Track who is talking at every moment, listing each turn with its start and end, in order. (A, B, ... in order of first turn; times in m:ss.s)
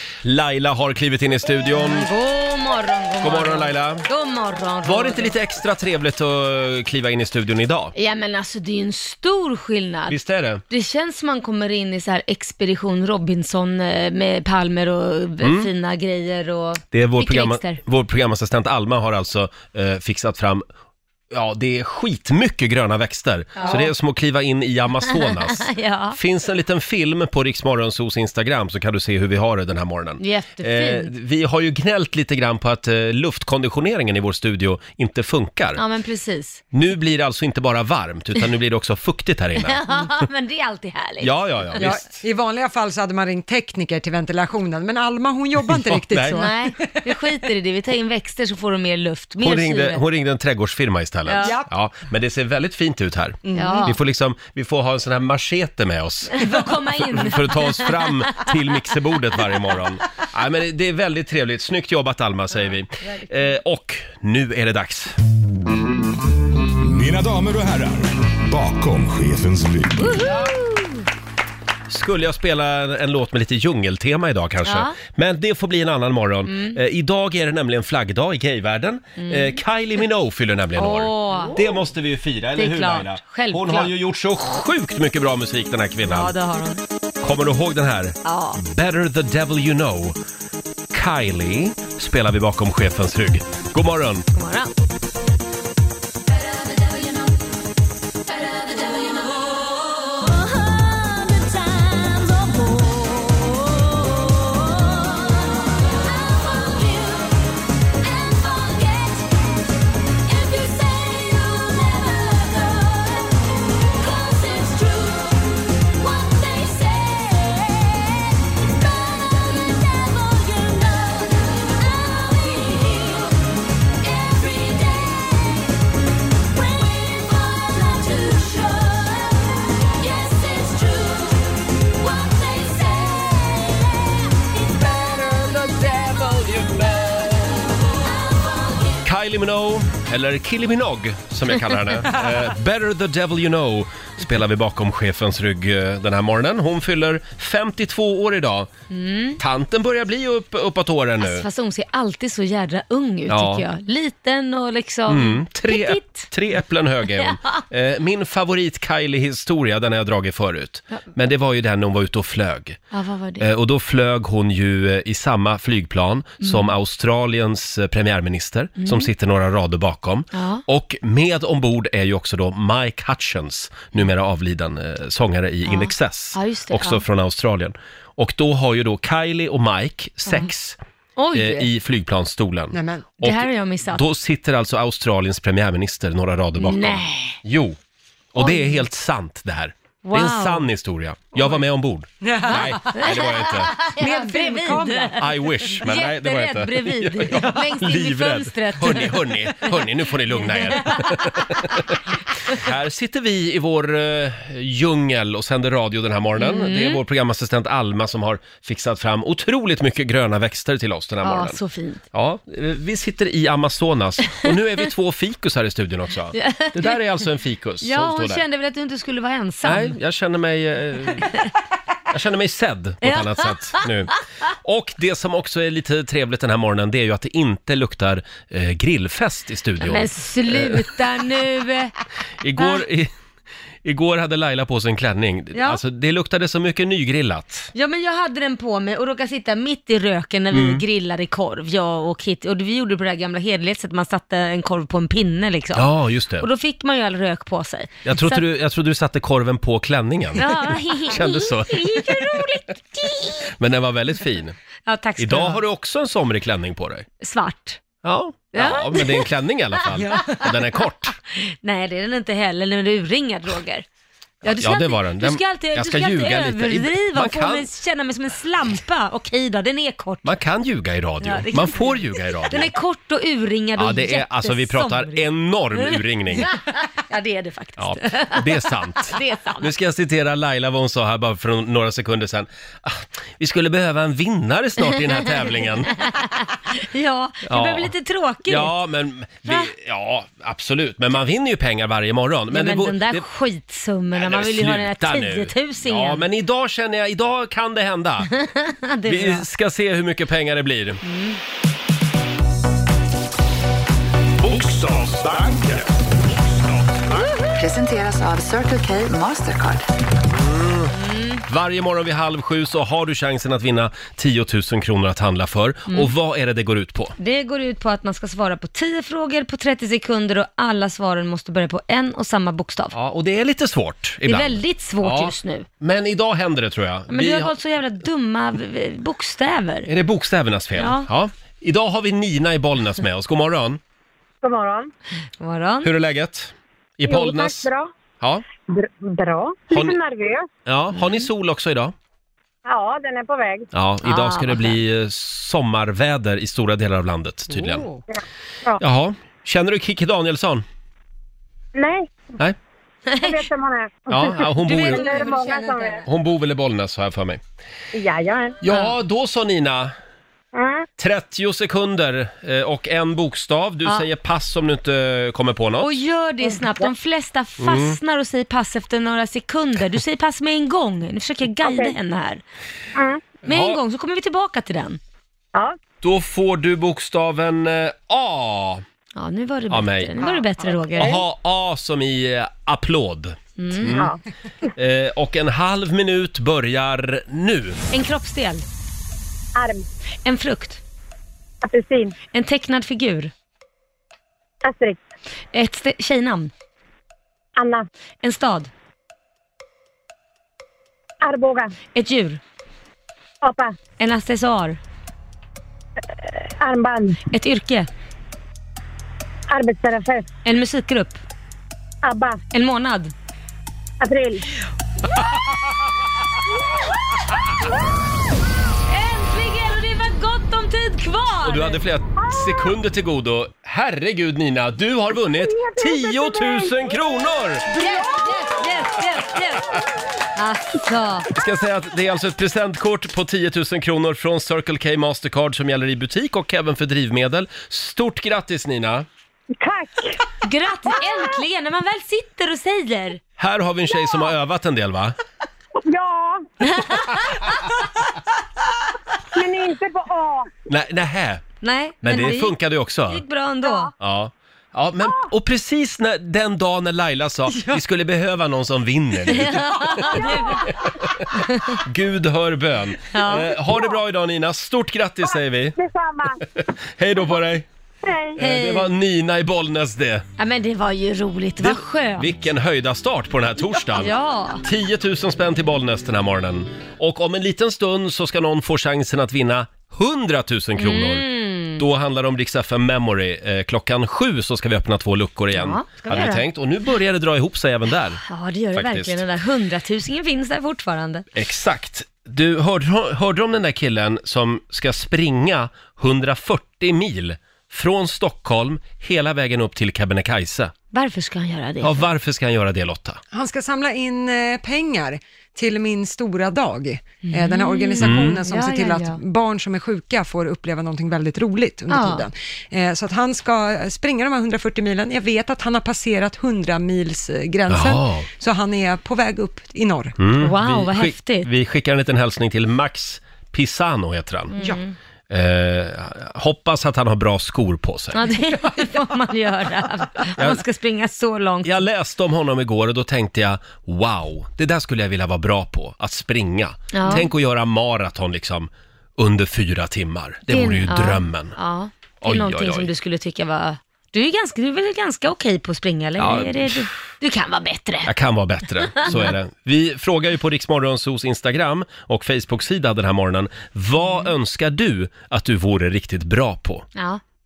0:00.2-0:02.1 A
0:01.7-0:05.3 B
0:03.2-0:04.1 A
0:04.8-0:07.9 A
0:07.9-0:10.2 B
0:10.1-0:10.6 A
0:10.7-0:17.8 B
0:15.4-0:15.7 A
0:16.9-0:20.6 A
0:21.3-0:35.8 A
0:23.6-0:23.9 B
0:25.3-0:26.2 B
0:30.2-0:31.1 B
0:35.8-0:36.6 B
0:36.7-0:39.8 A
0:39.6-0:41.8 B
0:41.2-0:42.2 A
0:41.8-0:47.0 C
0:45.7-0:46.4 A
0:46.3-0:50.0 B
0:49.4-0:56.4 A
0:51.3-0:51.5 B
0:51.4-0:51.7 C
0:53.4-0:53.9 C
0:53.5-0:54.0 B
0:56.3-0:58.4 B
0:57.2-1:05.2 A
1:06.8-1:10.3 D
1:10.0-1:11.0 B
1:11.9-1:26.3 A
1:14.6-1:15.0 B
1:16.5-1:16.8 B
1:19.2-1:19.6 B
1:20.8-1:21.6 B
1:22.6-1:24.0 B
1:26.1-1:26.8 B
1:27.2-1:30.2 A
1:28.2-1:28.6 B
1:30.9-1:34.3 A
1:34.3-1:34.7 B
1:38.5-1:45.4 B
1:46.2-1:47.3 B
1:48.0-1:49.2 B
1:50.3-1:53.3 B
1:54.0-1:55.4 B
1:56.0-1:58.2 B
1:58.9-2:03.3 B
2:04.1-2:05.4 B
2:06.6-2:09.3 B
2:10.0-2:11.4 B
2:12.1-2:13.8 B
2:14.9-2:17.5 A
2:19.0-2:28.7 A
2:28.9-2:29.4 B
2:29.4-2:31.4 A
2:31.2-2:36.3 B
2:33.3-2:33.6 A
2:35.1-2:42.8 A
2:37.2-2:37.6 B
2:42.9-2:43.4 B
2:43.4-3:00.8 A
2:46.4-2:46.7 B
2:48.8-2:49.1 B
2:50.3-2:50.6 B
2:55.6-2:57.0 B
3:01.2-3:01.7 B
3:01.3-3:07.8 A
3:02.7-3:03.1 C
3:03.2-3:04.0 B
3:06.6-3:07.4 B
3:08.3-3:13.7 A
3:08.4-3:08.8 B
3:10.0-3:10.7 B
3:12.2-3:13.2 C
3:12.9-3:19.7 B
3:14.0-3:15.2 C
3:15.2-3:31.6 A
3:20.4-3:21.0 B
3:26.4-3:27.0 B
3:31.2-3:32.0 B
3:32.1-3:38.4 A
3:36.3-3:37.0 B
3:37.8-3:40.0 B
3:39.6-3:41.3 A
3:42.1-3:51.0 A
3:43.0-3:44.2 B
3:49.8-3:51.9 B
3:52.4-3:53.1 A
3:52.6-3:52.8 B
3:53.8-3:57.7 A
3:55.5-3:55.8 B
3:57.7-4:05.9 B
4:00.5-4:00.8 A
4:05.7-4:06.5 A
4:06.4-4:08.4 B
4:08.0-4:10.5 A
4:10.4-4:13.5 B
4:11.1-4:12.1 A
4:13.5-4:14.5 A
4:14.8-4:15.6 B
4:15.2-4:17.0 A
4:17.2-4:17.8 B
4:18.0-4:21.1 A
4:18.5-4:20.8 B
4:21.3-4:23.8 B
4:24.4-4:30.3 B
4:24.5-4:27.7 A
4:30.2-4:32.7 A
4:31.2-4:39.7 B
4:33.8-4:36.5 A
4:37.8-4:45.9 A
4:45.9-4:48.7 B
4:47.4-4:47.9 A
4:48.5-4:53.2 A
4:52.5-4:56.2 B
4:54.1-4:58.3 A
4:58.3-4:59.4 B
4:59.0-5:01.0 A
5:01.0-5:01.4 B
5:04.4-5:07.4 D
5:07.5-5:09.8 E
5:10.3-5:10.9 A
5:10.9-5:11.4 B
5:11.5-5:17.2 A
5:17.2-5:22.9 B
5:22.9-5:27.5 A
5:24.2-5:25.7 B
5:27.1-5:29.9 B
5:29.9-5:33.8 A
5:30.8-5:31.1 B
5:34.4-5:34.9 F
5:35.4-5:35.9 B
5:35.8-5:37.7 A
5:37.0-5:37.9 F
5:38.7-5:40.5 F
5:39.7-5:40.0 A
5:40.6-5:41.9 A
5:42.6-5:43.7 F
5:43.7-5:47.8 A
5:44.0-5:44.8 B
5:47.5-5:48.0 C
5:48.8-5:50.6 A
5:51.7-5:52.1 F
5:53.1-5:53.4 B
5:53.2-5:56.0 F
5:54.1-5:55.2 A
5:54.6-5:56.0 C
5:56.0-5:57.4 A
5:57.9-5:58.6 F
5:58.6-5:59.9 A
5:58.7-5:58.9 B
6:00.5-6:00.9 F
6:01.0-6:05.9 A
6:05.8-6:12.4 B
6:06.5-6:06.8 F
6:07.6-6:08.0 A
6:11.6-6:11.9 F
6:12.9-6:13.3 F
6:13.4-6:13.8 A
6:13.4-6:15.0 B
6:16.0-6:18.8 A
6:19.1-6:21.2 B
6:19.7-6:20.1 A
6:20.9-6:24.1 A
6:23.6-6:24.0 B
6:24.8-6:27.8 A
6:27.9-6:28.6 B
6:29.5-6:29.9 F
6:30.2-6:30.8 B
6:31.6-6:32.2 F
6:32.3-6:33.3 B
6:34.6-6:35.0 F
6:35.5-6:36.5 B
6:37.6-6:37.9 F
6:38.2-6:38.7 B
6:41.2-6:41.8 F
6:41.9-6:42.4 B
6:43.4-6:43.8 F
6:44.0-6:44.8 B
6:46.1-6:47.2 F
6:47.3-6:47.9 B
6:49.5-6:50.3 F
6:50.4-6:51.2 B
6:52.0-6:52.4 F
6:52.5-6:53.1 B
6:54.0-6:54.4 F
6:58.8-7:01.8 B
7:01.4-7:07.8 A
7:02.2-7:02.7 F
7:05.4-7:07.3 F
7:07.7-7:09.7 B
7:10.3-7:11.3 B
7:11.3-7:19.0 A
7:19.6-7:20.2 F
7:20.4-7:23.2 B
7:23.4-7:25.2 A
7:25.8-7:26.8 F
7:26.8-7:27.0 B
7:29.3-7:30.5 F
7:30.7-7:31.4 A
7:31.6-7:32.6 B
7:32.0-7:33.2 A
7:33.1-7:33.9 B
7:34.0-7:41.1 A
7:39.3-7:40.8 B
7:41.3-7:41.8 B
7:41.8-7:45.8 A
7:43.1-7:43.5 B
7:45.8-7:46.4 F
7:46.5-7:47.6 A
7:48.0-7:48.4 F
7:48.4-7:48.9 B
7:48.4-7:50.2 A
7:50.4-7:52.3 B
7:51.6-8:08.2 A
7:54.0-7:54.6 B
8:00.8-8:01.8 B
8:05.5-8:06.4 B
8:08.2-8:11.2 B
8:08.7-8:09.2 A
8:11.3-8:20.7 A
8:20.9-8:22.1 B
8:21.8-8:23.2 A
8:23.3-8:40.2 C
8:27.2-8:29.2 B
8:28.0-8:28.4 A
8:31.9-8:32.3 B
8:37.7-8:38.3 A
8:40.2-8:44.5 A
8:40.4-8:41.5 B
8:44.5-8:44.9 B
8:45.3-8:48.2 A
8:48.1-8:51.8 B
8:51.6-9:01.6 A
8:56.9-8:57.3 B
9:00.5-9:08.1 B
9:02.2-9:02.9 A
9:06.2-9:06.8 A
9:08.0-9:16.8 A
9:08.9-9:09.3 B
9:17.0-9:17.2 B